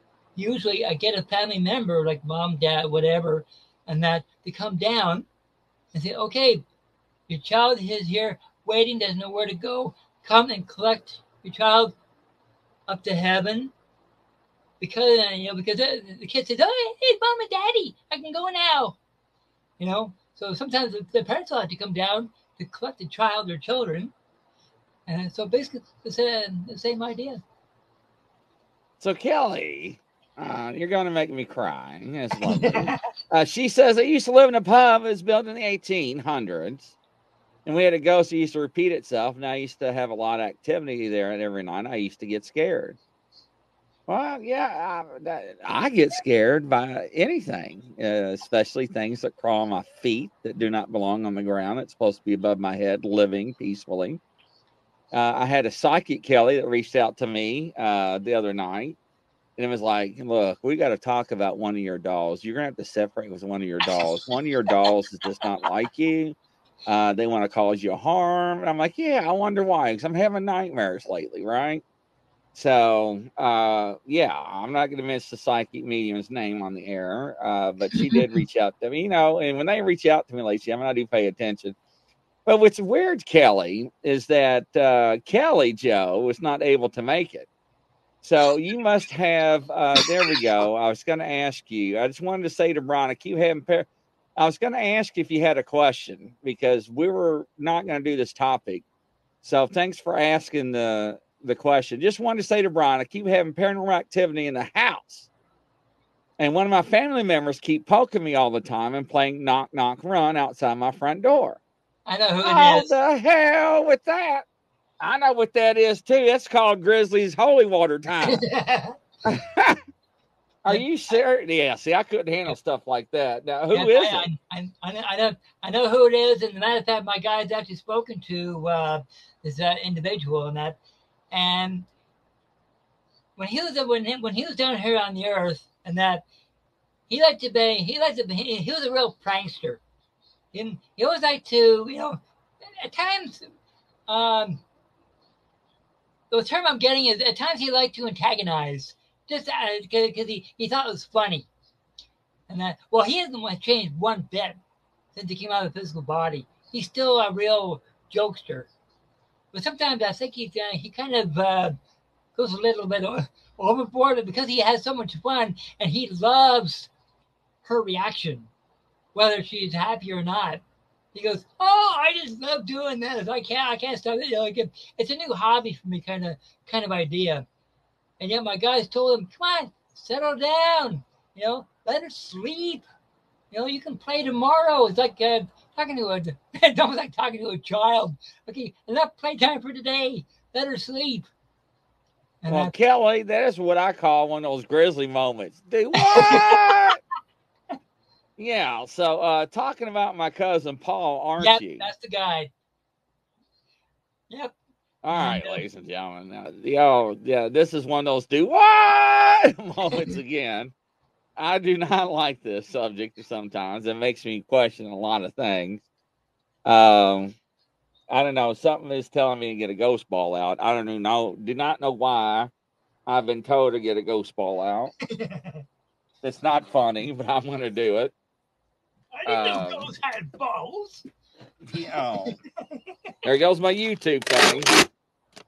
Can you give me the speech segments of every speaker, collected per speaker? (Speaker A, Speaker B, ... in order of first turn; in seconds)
Speaker A: 0.3-5.3, 5.9-6.6, 7.3-11.9, 12.9-13.7, 14.8-19.0, 19.8-24.1, 25.1-27.4, 32.4-33.0, 77.9-78.4, 112.1-112.9, 118.2-119.0, 123.7-130.8, 131.3-131.9, 133.4-136.2, 137.1-139.8, 140.5-142.2, 142.8-143.5, 144.1-144.6, 146.3-151.5, 152.5-154.6, 155.1-158.7, 159.5-161.8, 162.3-166.9, 167.6-168.5, 169.1-170.6, 171.1-177.4, 178.2-182.8, 183.5-191.3, 192.4-192.7, 196.0-196.8, 201.4-202.5, 204.3-204.5, 205.1-205.6, 225.1-225.6, 229.1-231.0
Speaker B: 29.0-37.0, 37.6-43.0, 44.1-54.2, 55.1-59.0, 59.6-71.8, 72.5-81.7, 82.5-87.5, 88.2-98.8, 99.4-105.3, 106.4-111.6, 112.4-114.4, 115.0-118.4, 119.2-119.8, 120.6-124.3, 192.5-197.0, 198.4-201.8, 205.0-210.7, 211.4-215.8, 216.6-217.3, 218.1-222.5, 223.1-224.9, 226.2-228.1, 229.2-229.9, 231.7-232.3, 233.2-234.7